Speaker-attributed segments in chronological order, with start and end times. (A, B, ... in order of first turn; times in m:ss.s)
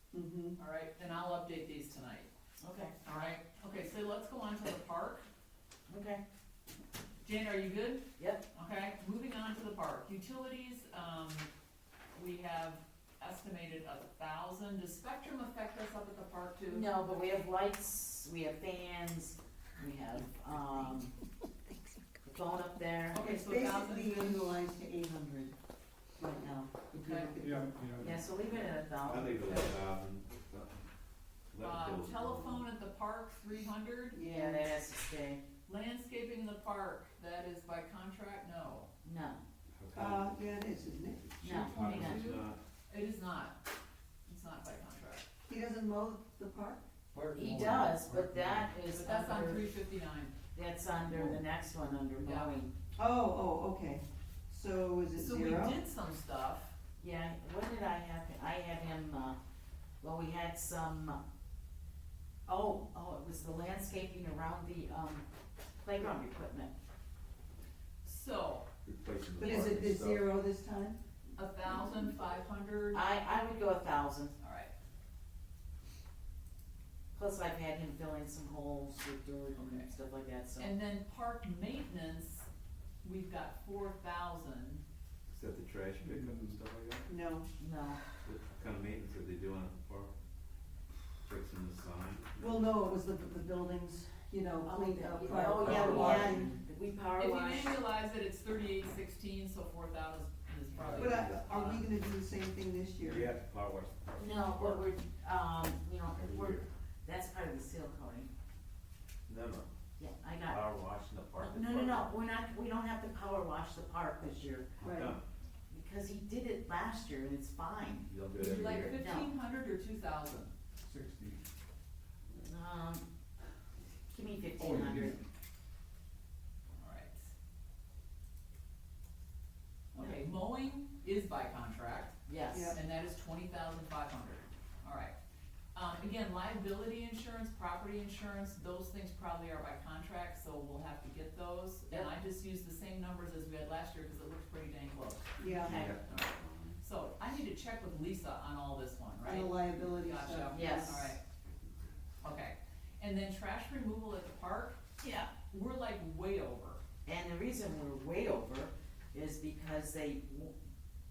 0:00.1-0:00.6 A
0:00.6-0:02.3 B
0:02.6-0:03.0 C
0:03.0-0:05.3 B
0:05.9-0:06.2 C
0:07.2-0:11.5 B
0:08.2-0:08.4 C
0:12.2-0:17.4 B
0:16.7-0:21.1 C
0:22.2-0:23.3 C
0:23.1-0:24.4 B
0:23.2-0:25.5 A
0:26.2-0:27.9 A
0:27.0-0:27.3 B
0:27.4-0:28.3 D
0:28.0-0:29.7 C
0:28.5-0:30.9 E
0:31.5-0:32.7 E
0:31.6-0:34.2 B
0:34.1-0:34.7 A
0:34.3-0:35.4 C
0:35.7-0:38.9 B
0:39.0-0:39.4 C
0:39.7-0:40.4 E
0:39.9-0:41.3 A
0:41.3-0:42.6 E
0:41.4-0:42.2 C
0:41.5-0:43.6 B
0:44.3-0:45.3 B
0:45.5-0:46.8 A
0:47.1-0:48.7 D
0:47.3-0:49.7 C
0:48.9-0:50.3 B
0:50.6-0:52.7 C
0:51.1-0:51.4 D
0:52.2-0:52.5 B
0:53.0-0:55.8 A
0:55.2-0:56.7 B
0:57.0-0:59.4 C
1:00.0-1:01.2 C
1:02.5-1:05.3 C
1:05.8-1:06.7 C
1:08.0-1:08.6 B
1:08.8-1:10.2 E
1:09.4-1:11.0 A
1:11.4-1:13.1 B
1:12.9-1:14.3 C
1:14.4-1:14.7 B
1:17.1-1:20.7 C
1:19.5-1:19.9 B
1:20.6-1:22.5 B
1:23.0-1:24.8 B
1:25.3-1:27.1 E
1:26.0-1:26.5 D
1:27.1-1:27.5 A
1:27.6-1:28.0 C
1:28.2-1:30.1 E
1:31.3-1:32.6 E
1:32.4-1:36.6 A
1:34.6-1:37.8 C
1:35.5-1:36.4 E
1:37.2-1:41.8 B
1:40.8-1:41.1 D
1:40.9-1:43.3 A
1:41.1-1:41.6 E
1:43.0-1:44.9 E
1:44.2-1:48.3 C
1:46.1-1:46.7 E
1:49.3-1:49.7 E
1:50.0-1:50.6 C
1:50.4-1:52.1 E
1:51.4-1:54.7 C
1:54.8-1:55.2 E
1:54.8-1:55.2 A
1:55.7-1:58.1 C
1:58.0-1:59.0 E
1:58.4-2:00.5 B
1:59.0-1:59.3 C
2:00.8-2:01.4 D
2:02.4-2:03.0 C
2:04.1-2:05.2 C
2:04.6-2:05.2 D
2:06.8-2:07.3 B
2:10.0-2:12.2 B
2:12.3-2:12.7 C
2:12.7-2:15.2 B
2:15.8-2:25.9 B
2:25.4-2:25.8 A
2:25.6-2:26.8 E
2:26.8-2:31.2 B
2:29.2-2:31.1 A
2:30.5-2:31.2 C
2:32.2-2:34.9 B
2:35.0-2:35.3 C
2:35.4-2:36.8 B
2:37.1-2:40.5 C